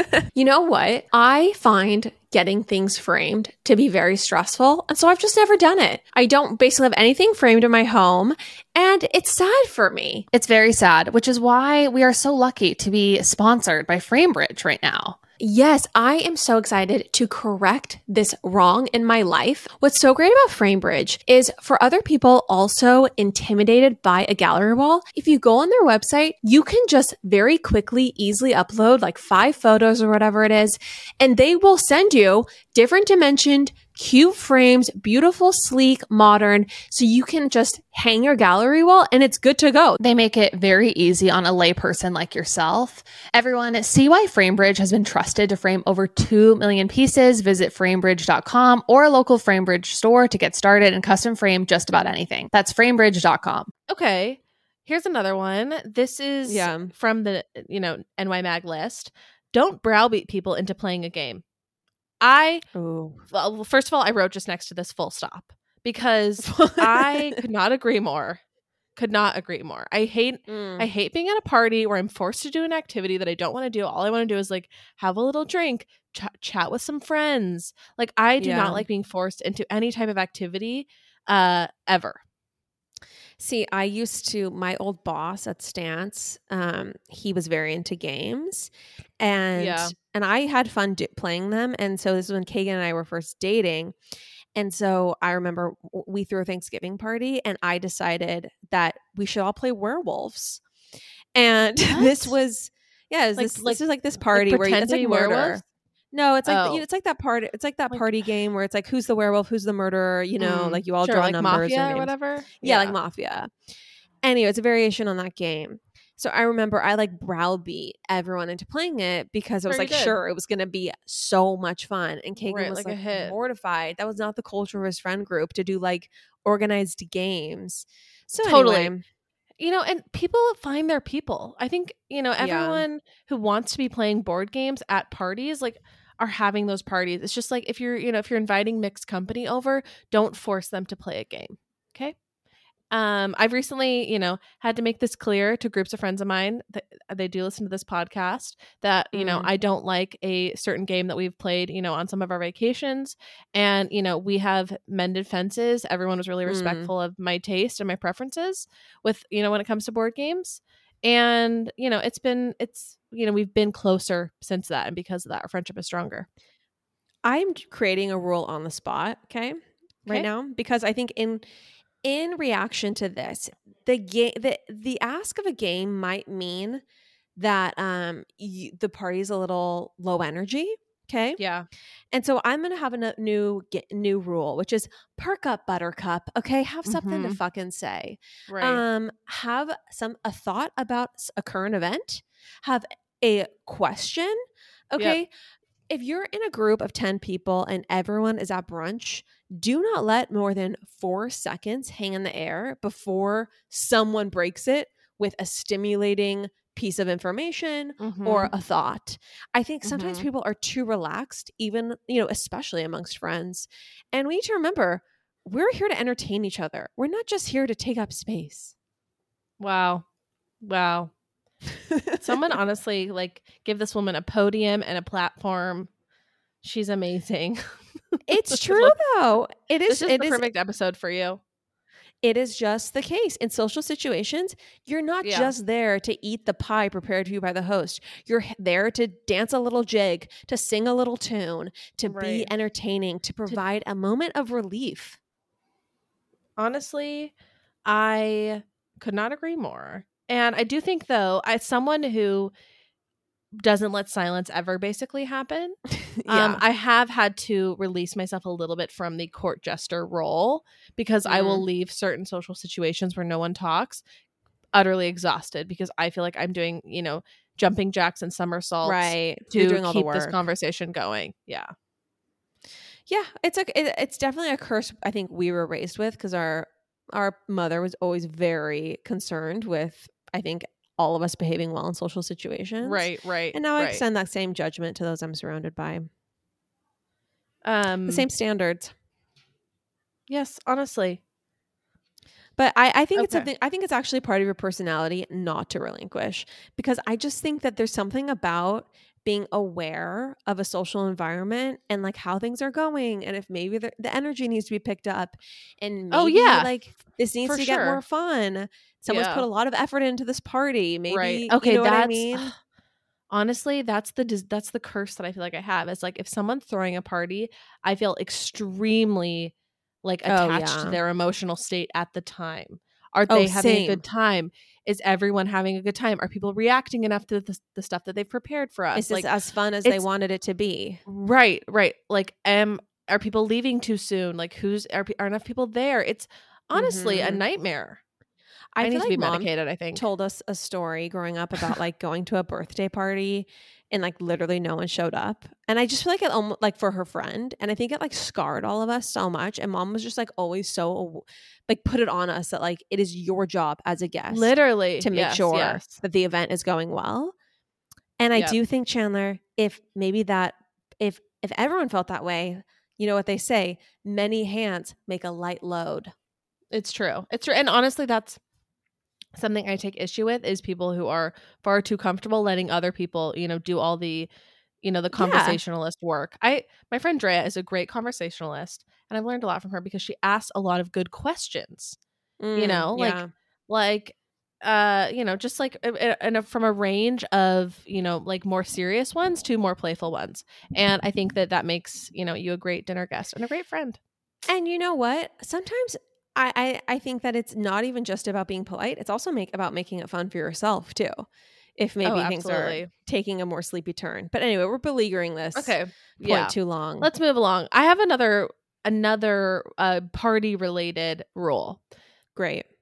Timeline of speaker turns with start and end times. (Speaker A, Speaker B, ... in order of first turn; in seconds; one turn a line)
Speaker A: 0.3-10.3
Speaker B: 10.3-15.2
Speaker A: 15.4-40.0
Speaker B: 40.0-53.7
Speaker C: 53.9-61.4
Speaker A: 56.5-56.9
Speaker C: 62.2-62.6
Speaker A: 62.7-63.2
Speaker C: 63.3-68.4
Speaker A: 66.5-67.2
Speaker C: 69.0-82.2
Speaker A: 70.5-70.9
Speaker A: 78.4-78.8
Speaker A: 83.4-94.0
Speaker C: 89.5-89.9
Speaker A: 94.5-100.6
Speaker A: 101.3-113.5
Speaker C: 101.8-102.3
Speaker C: 103.4-103.8
Speaker C: 104.3-105.6
Speaker C: 106.5-106.8
Speaker C: 110.4-113.0
Speaker A: 114.2-129.0
Speaker C: 119.7-120.2
Speaker C: 122.4-123.3
Speaker C: 128.4-128.9
Speaker C: 129.6-142.2
Speaker A: 132.4-132.8
Speaker C: 142.9-166.3
Speaker A: 149.1-149.5
Speaker A: 156.5-156.9
Speaker A: 167.2-171.5
Speaker A: 172.0-176.8
Speaker A: 177.4-181.4
Speaker C: 181.4-181.7
Speaker A: 182.1-194.4
Speaker C: 186.9-187.4
Speaker C: 188.5-188.8
Speaker A: 194.9-195.3
Speaker A: 195.9-218.7
Speaker C: 208.0-208.5
Speaker C: 209.8-210.3
Speaker C: 219.6-220.1
Speaker C: 220.6-221.1
Speaker A: 221.9-222.2
Speaker C: 222.2-225.9
Speaker C: 226.6-228.9
Speaker A: 228.3-230.5
Speaker C: 229.9-231.4
Speaker A: 232.2-245.2
Speaker C: 235.2-235.5
Speaker C: 242.1-242.5
Speaker C: 246.6-247.3
Speaker C: 247.9-252.5
Speaker C: 253.5-264.0
Speaker A: 256.2-256.6
Speaker A: 261.3-261.6
Speaker C: 264.7-271.7
Speaker A: 268.8-270.4
Speaker A: 273.1-286.1
Speaker C: 282.8-284.0
Speaker C: 287.6-288.3
Speaker A: 288.1-288.9
Speaker C: 290.3-291.2
Speaker A: 292.6-312.5
Speaker C: 293.2-293.5
Speaker C: 306.1-306.7
Speaker C: 307.4-308.0
Speaker C: 309.1-309.5
Speaker C: 311.1-312.6
Speaker C: 313.3-329.3
Speaker A: 320.3-321.0
Speaker A: 323.3-324.0
Speaker A: 328.9-331.0
Speaker C: 331.1-338.0
Speaker A: 336.8-337.4
Speaker A: 338.7-357.4
Speaker C: 338.8-340.1
Speaker C: 354.3-355.9
Speaker A: 358.2-366.1
Speaker C: 366.7-368.4
Speaker C: 369.4-374.3
Speaker C: 374.8-382.0
Speaker A: 375.1-375.6
Speaker A: 382.4-383.3
Speaker C: 382.6-394.0
Speaker A: 394.5-407.1
Speaker C: 402.0-402.9
Speaker C: 405.6-411.8
Speaker A: 412.4-412.7